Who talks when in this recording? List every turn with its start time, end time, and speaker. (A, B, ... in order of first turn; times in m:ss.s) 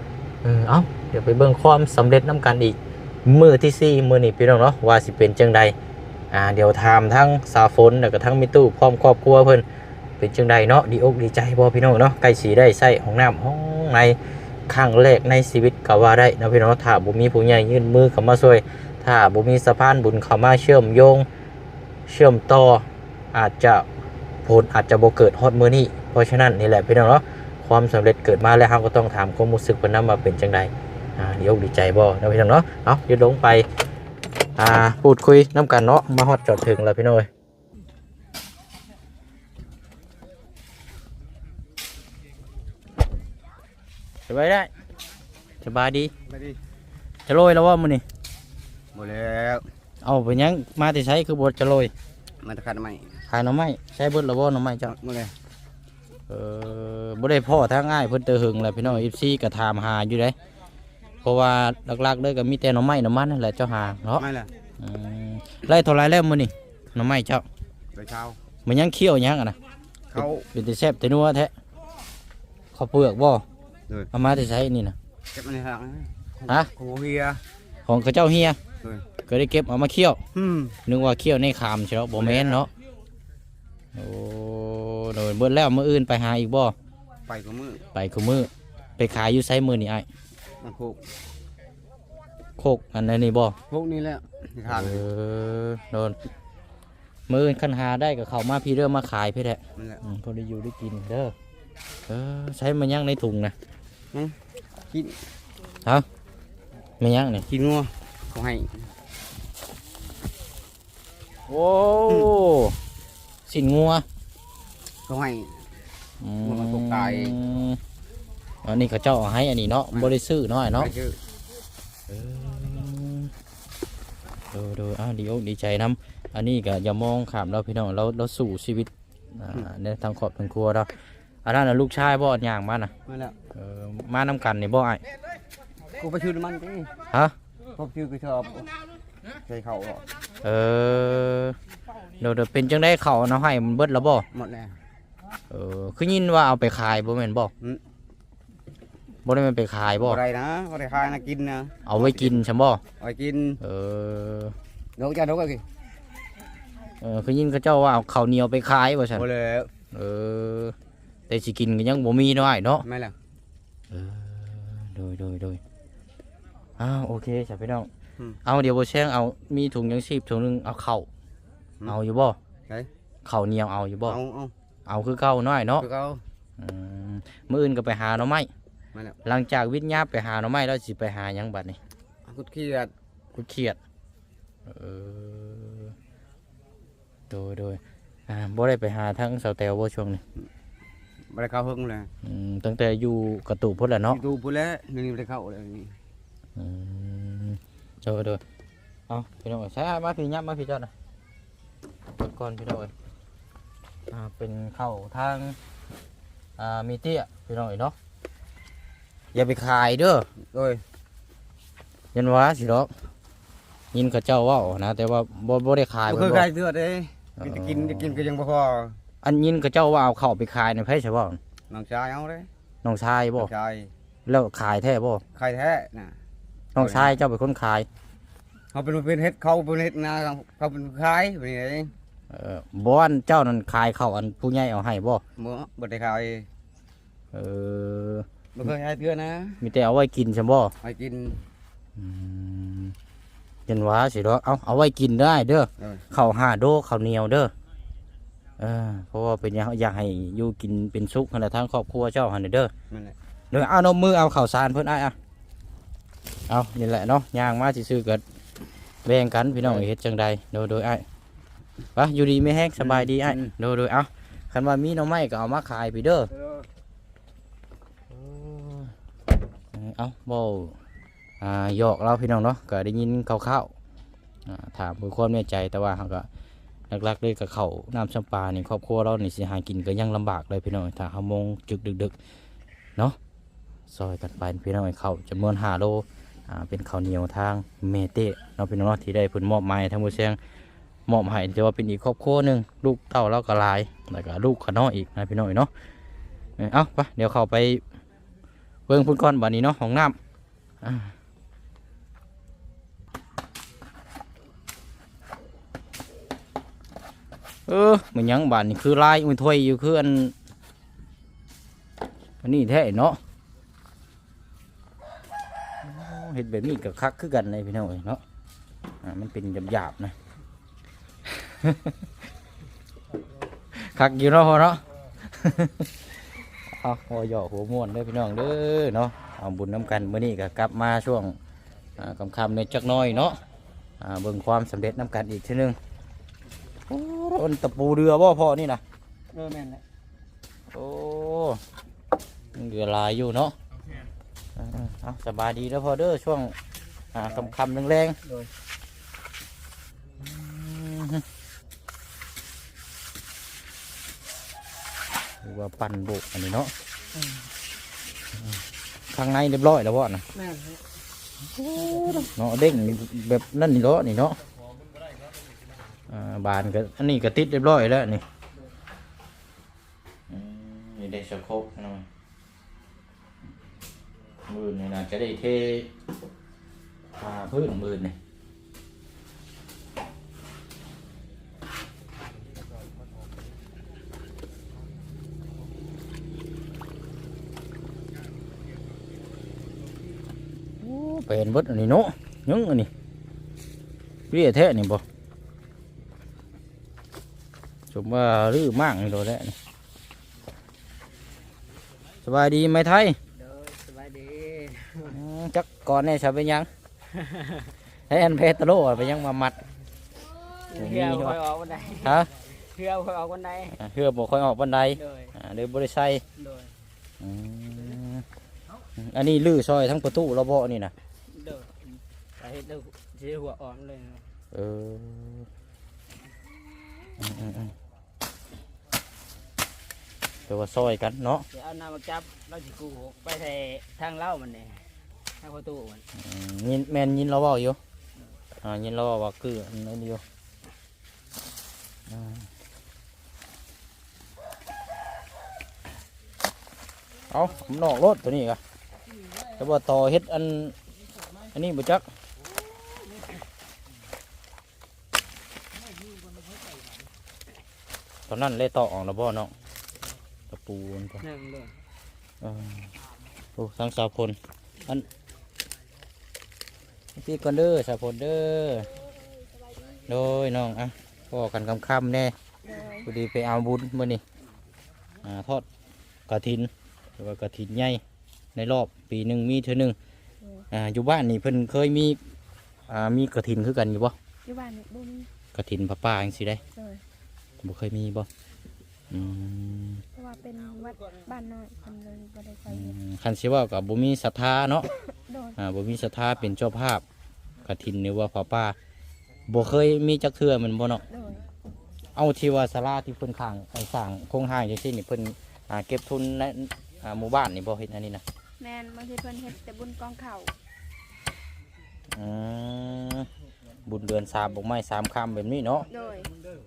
0:00.4-0:05.8 A
0:06.3-0:09.6 A
0:10.2-0:14.2 A
0:14.7-0:21.3 A
0:22.1-0:23.9 A
0:24.4-0:33.7 A
0:34.6-0:37.3 A
0:44.3-0:44.7 A
0:45.6-0:46.1 A
0:46.3-0:46.6 B
0:47.3-0:48.0 A
0:48.9-0:49.6 B
0:50.0-0:51.9 A
0:52.4-0:53.2 B
0:53.3-0:54.9 A
0:54.9-0:55.3 B
0:56.3-1:00.4 A
1:01.2-1:04.3 A
1:04.2-1:04.5 B
1:04.8-1:07.5 A
1:07.9-1:08.4 B
1:08.7-1:09.6 A
1:10.1-1:10.5 B
1:10.2-1:11.5 A
1:12.7-1:13.4 A
1:14.1-1:15.0 A
1:15.3-1:17.4 B
1:17.9-1:18.6 A
1:19.2-1:20.2 A
1:20.3-1:20.8 B
1:20.9-1:22.7 A
1:22.2-1:22.7 B
1:24.0-1:26.8 A
1:27.3-1:27.8 B
1:27.9-1:30.1 A
1:30.6-1:31.0 B
1:32.6-1:33.6 A
1:33.7-1:35.0 B
1:34.7-1:36.2 A
1:37.3-1:41.3 A
1:39.8-1:40.0 B
1:42.1-1:43.6 A
1:44.9-1:45.2 B
1:47.0-1:47.5 A
1:47.5-1:48.7 B
1:51.5-1:52.8 A
1:53.5-1:54.0 A
1:55.1-1:55.6 B
1:56.2-1:57.8 A
1:56.4-1:57.4 B
1:58.6-2:00.9 A
1:59.9-2:00.2 B
2:00.7-2:01.2 B
2:02.1-2:03.3 A
2:04.5-2:10.9 A
2:11.4-2:12.9 A
2:13.1-2:13.4 B
2:13.5-2:15.0 A
2:16.0-2:16.9 B
2:17.8-2:18.7 B
2:19.5-2:20.0 B
2:20.4-2:21.6 A
2:22.2-2:24.3 A
2:24.3-2:24.8 B
2:25.5-2:27.5 A
2:29.2-2:30.2 A
2:30.0-2:32.4 B
2:31.9-2:32.8 A
2:33.0-2:33.6 B
2:33.6-2:34.6 A
2:35.0-2:35.6 B
2:37.0-2:39.3 A
2:39.1-2:39.7 B
2:39.9-2:40.8 A
2:41.3-2:42.8 A
2:42.8-2:43.2 B
2:43.9-2:45.6 A
2:46.8-2:47.9 A
2:48.4-2:51.1 A
2:51.9-2:52.4 A
2:53.2-2:54.2 A
2:54.0-2:54.5 B
2:54.9-2:55.9 A
2:55.8-2:56.2 B
2:56.6-2:58.5 A
2:59.2-3:01.8 A
3:02.3-3:02.9 B
3:03.3-3:03.8 A
3:04.7-3:05.9 A
3:07.3-3:10.2 A
3:11.3-3:12.1 B
3:12.2-3:14.2 A
3:14.1-3:16.0 B
3:16.6-3:18.4 A
3:19.1-3:20.9 A
3:22.2-3:22.9 A
3:24.1-3:25.6 A
3:26.6-3:28.0 A
3:29.3-3:30.3 A
3:30.5-3:30.8 B
3:32.1-3:32.9 A
3:33.9-3:36.5 A
3:36.1-3:39.0 B
3:37.4-3:38.2 A
3:39.2-3:41.4 A
3:41.7-3:42.5 B
3:42.8-3:43.5 A
3:43.4-3:43.9 B
3:44.3-3:45.2 A
3:45.3-3:46.2 B
3:46.8-3:47.9 A
3:46.8-3:47.1 B
3:48.7-3:51.9 B
3:52.3-3:55.2 A
3:55.4-3:56.5 B
3:57.3-3:58.3 A
3:58.6-3:59.6 B
3:59.6-4:00.7 A
4:00.8-4:01.4 B
4:02.0-4:03.0 A
4:03.7-4:07.5 A
4:08.6-4:12.7 A
4:12.9-4:13.2 B
4:13.5-4:15.2 A
4:16.5-4:18.2 A
4:19.0-4:21.0 A
4:19.6-4:19.9 B
4:22.0-4:26.3 A
4:22.8-4:23.5 B
4:26.3-4:26.6 B
4:28.1-4:28.9 A
4:29.7-4:30.8 A
4:31.4-4:33.7 A
4:34.5-4:36.3 A
4:36.9-4:42.1 A
4:43.9-4:50.4 A
4:51.1-4:55.7 A
4:56.6-4:57.8 A
4:58.9-5:00.2 A
5:00.8-5:01.1 A
5:07.7-5:10.4 A
5:12.4-5:13.2 A
5:15.8-5:18.2 A
5:19.0-5:20.2 A
5:21.3-5:22.0 A
5:23.7-5:26.1 A
5:26.7-5:31.4 A
5:32.0-5:33.4 A
5:34.0-5:35.8 A
5:36.9-5:38.8 A
5:39.3-5:39.8 B
5:40.7-5:41.6 A
5:42.6-5:43.6 A
5:44.6-5:46.6 A
5:47.1-5:48.2 A
5:50.2-5:51.2 A
5:55.4-5:56.7 A
5:58.4-6:00.2 A
6:00.4-6:00.8 C
6:01.5-6:04.4 A
6:06.1-6:08.2 A
6:10.3-6:12.0 A
6:14.5-6:15.9 A
6:17.2-6:18.2 A
6:30.8-6:32.9 A
6:34.3-6:35.0 A
6:37.9-6:39.6 A
6:42.2-6:43.2 A
6:43.3-6:45.2 C
6:45.1-6:46.7 A
6:47.2-6:47.7 C
6:48.1-6:49.6 A
6:50.7-6:53.8 C
6:50.8-6:51.4 A
6:52.0-6:52.3 A
6:53.8-6:56.2 A
6:55.0-6:55.3 C
6:56.4-6:56.7 C
6:57.2-6:58.2 A
6:59.0-7:00.9 A
7:01.3-7:04.3 C
7:04.5-7:05.5 A
7:07.2-7:07.7 A
7:10.5-7:11.4 A
7:11.5-7:14.8 C
7:15.4-7:16.0 C
7:16.2-7:17.8 A
7:18.6-7:20.2 A
7:22.1-7:22.5 A
7:27.3-7:28.6 A
7:29.6-7:30.8 A
7:31.5-7:32.0 A
7:38.3-7:39.5 A
7:40.5-7:41.2 A
7:41.2-7:41.7 C
7:42.4-7:42.9 A
7:43.6-7:44.4 A
7:47.2-7:48.9 A
7:49.1-7:50.0 D
7:50.1-7:52.4 A
7:52.6-7:53.1 D
7:53.0-7:54.2 A
7:55.2-7:55.6 A
7:56.3-7:58.0 A
7:58.6-8:00.0 A
8:00.7-8:02.2 A
8:02.9-8:04.2 A
8:04.4-8:05.3 D
8:05.6-8:06.6 A
8:06.8-8:07.0 D
8:07.6-8:08.3 A
8:09.1-8:10.0 A
8:10.2-8:13.0 D
8:12.7-8:14.9 A
8:15.1-8:15.6 D
8:15.6-8:17.0 A
8:17.6-8:18.8 A
8:19.5-8:21.0 A
8:21.1-8:21.4 D
8:22.2-8:28.2 A
8:28.6-8:30.5 D
8:32.1-8:33.3 A
8:33.9-8:35.9 A
8:35.9-8:36.3 D